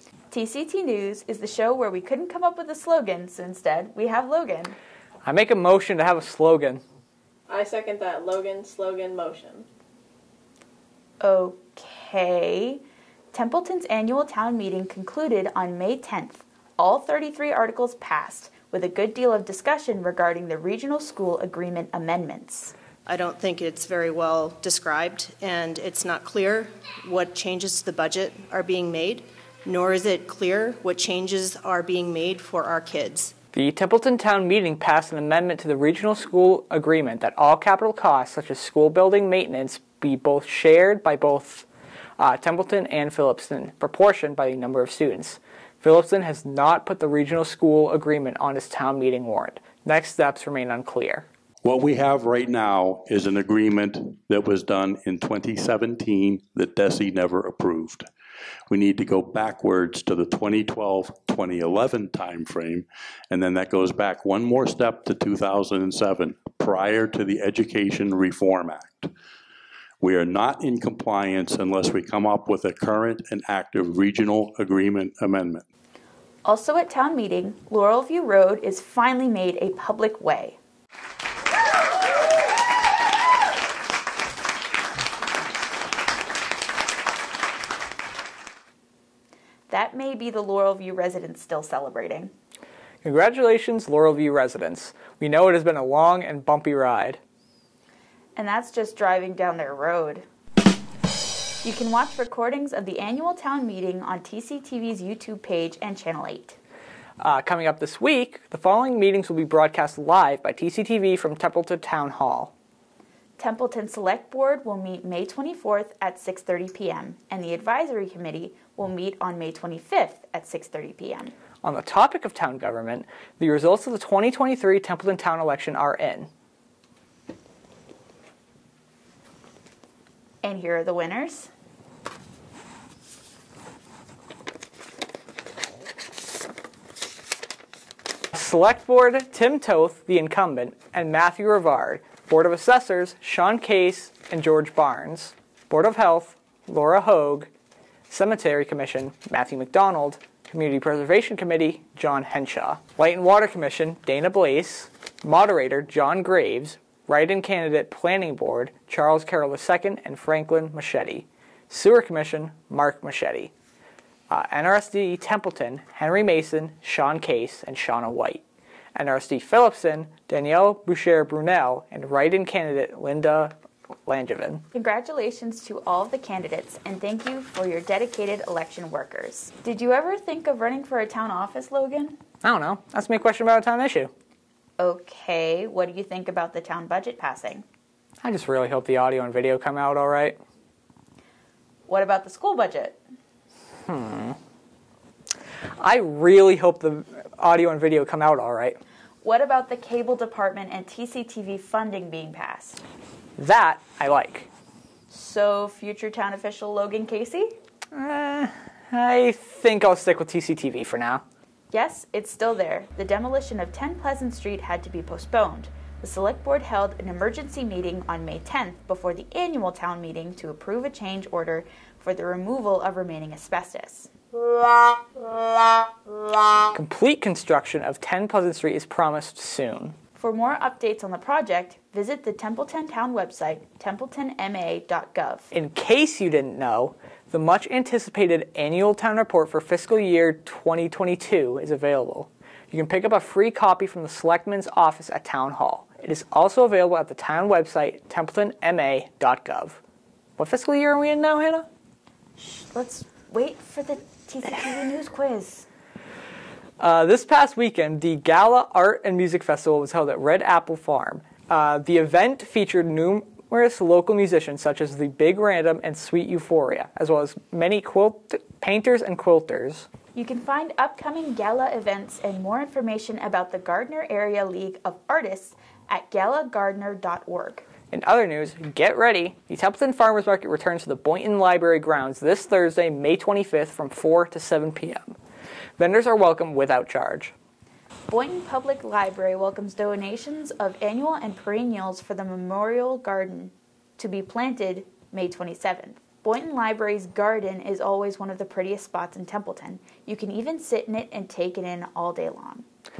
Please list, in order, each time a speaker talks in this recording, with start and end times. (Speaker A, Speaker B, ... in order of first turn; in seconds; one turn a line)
Speaker A: 0.3-4.8
Speaker B: 5.2-6.8
Speaker C: 7.5-9.6
Speaker A: 11.2-22.7
Speaker D: 23.1-33.3
Speaker B: 33.5-41.6
Speaker B: 42.2-51.2
Speaker E: 51.6-58.0
Speaker E: 58.7-69.1
Speaker E: 70.0-75.6
Speaker A: 76.4-80.6
Speaker A: 89.7-92.3
Speaker B: 93.0-97.2
Speaker A: 98.3-100.2
Speaker A: 101.6-106.6
Speaker B: 107.2-112.5
Speaker A: 113.4-121.3
Speaker B: 121.6-126.3
Speaker A: 130.4-131.5
Speaker B: 138.3-147.5
Speaker B: 148.1-163.5
Speaker B: 164.3-168.4
Speaker B: 168.9-173.5
Speaker B: 174.1-174.6
Speaker A: 174.7-182.2
Speaker B: 182.4-184.1
Speaker A: 184.8-187.6
Speaker B: 188.2-190.4
Speaker A: 191.9-193.0
Speaker B: 193.8-194.4
Speaker B: 195.8-198.8
Speaker A: 199.2-202.8
Speaker B: 203.4-204.5
Speaker A: 205.1-207.5
Speaker B: 207.9-211.2
Speaker A: 211.7-224.1
Speaker B: 226.7-229.9
Speaker A: 230.1-235.5
Speaker B: 235.5-249.8
Speaker B: 250.4-251.7
Speaker A: 252.4-255.7
Speaker B: 256.8-269.9
Speaker A: 270.1-277.6
Speaker B: 277.9-285.1
Speaker B: 285.8-287.3
Speaker A: 288.1-302.6